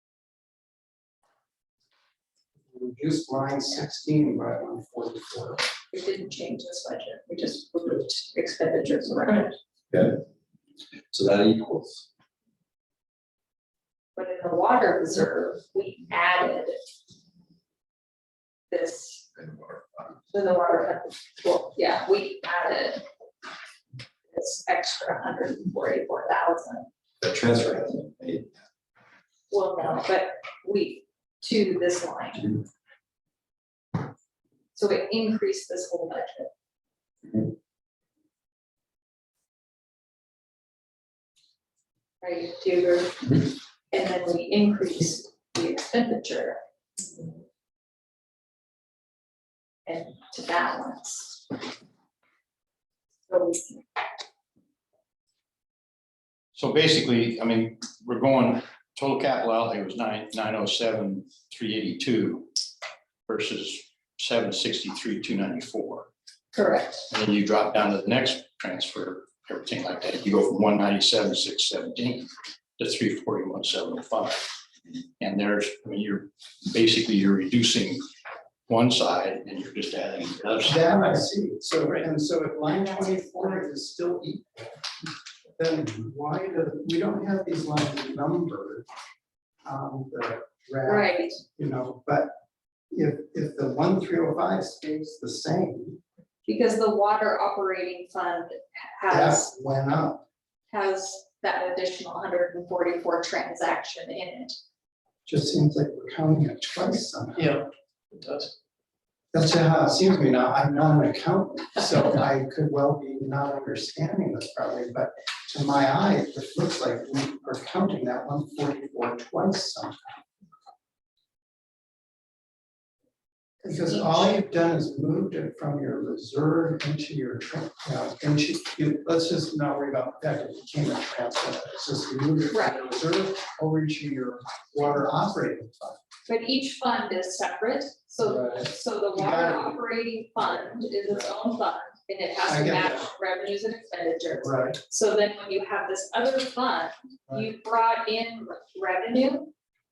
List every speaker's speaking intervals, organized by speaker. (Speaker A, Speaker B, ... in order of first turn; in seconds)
Speaker A: 2.7-5.6, 80.6-84.7, 85.6-88.9, 89.6-92.3, 92.9-96.0, 99.1-100.2, 105.2-107.6, 109.3-120.1, 123.7-136.0, 138.2-139.8, 140.4-140.7, 142.5-143.1, 144.4-144.8
Speaker B: 5.9-9.6, 14.2-16.8, 18.7-19.2, 20.3-23.0, 24.3-26.9, 29.5-32.6, 34.7-36.5, 42.2-47.3, 49.9-51.6, 53.3-53.8, 66.5-67.0, 90.8-91.4, 96.5-99.5, 100.7-104.5, 123.6-124.2, 132.5-132.8, 136.3-149.5
Speaker C: 9.9-10.2, 11.1-12.1, 19.4-20.2, 27.2-28.5
Speaker D: 56.5-62.5, 63.3-66.1, 67.1-74.4, 75.2-78.0, 78.7-80.9